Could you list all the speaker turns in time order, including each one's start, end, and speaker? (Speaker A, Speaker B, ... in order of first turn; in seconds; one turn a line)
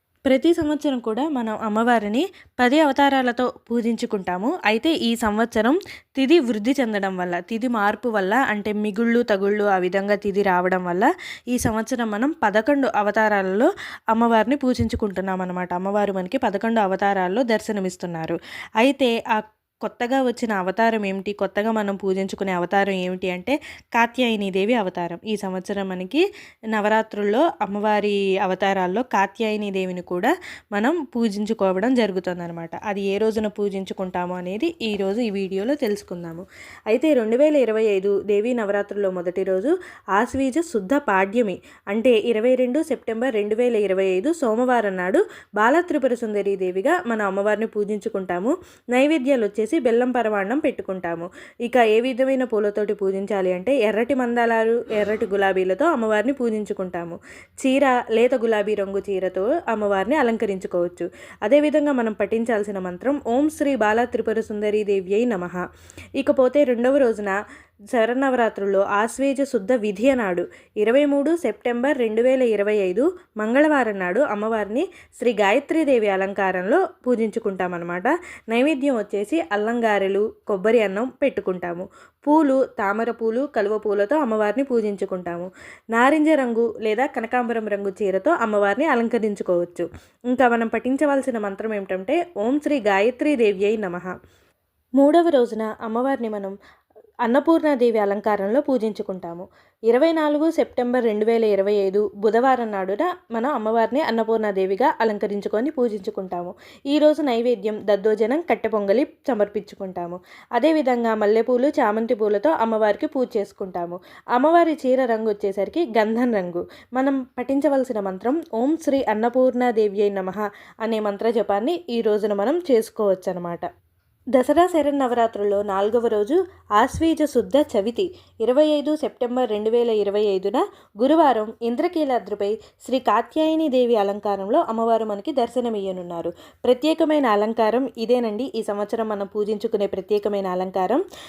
Speaker A: 0.3-26.2
Speaker A: 26.7-65.6
Speaker A: 66.2-67.4
Speaker A: 67.9-94.1
Speaker A: 95.0-96.5
Speaker A: 97.2-123.7
Speaker A: 124.4-141.0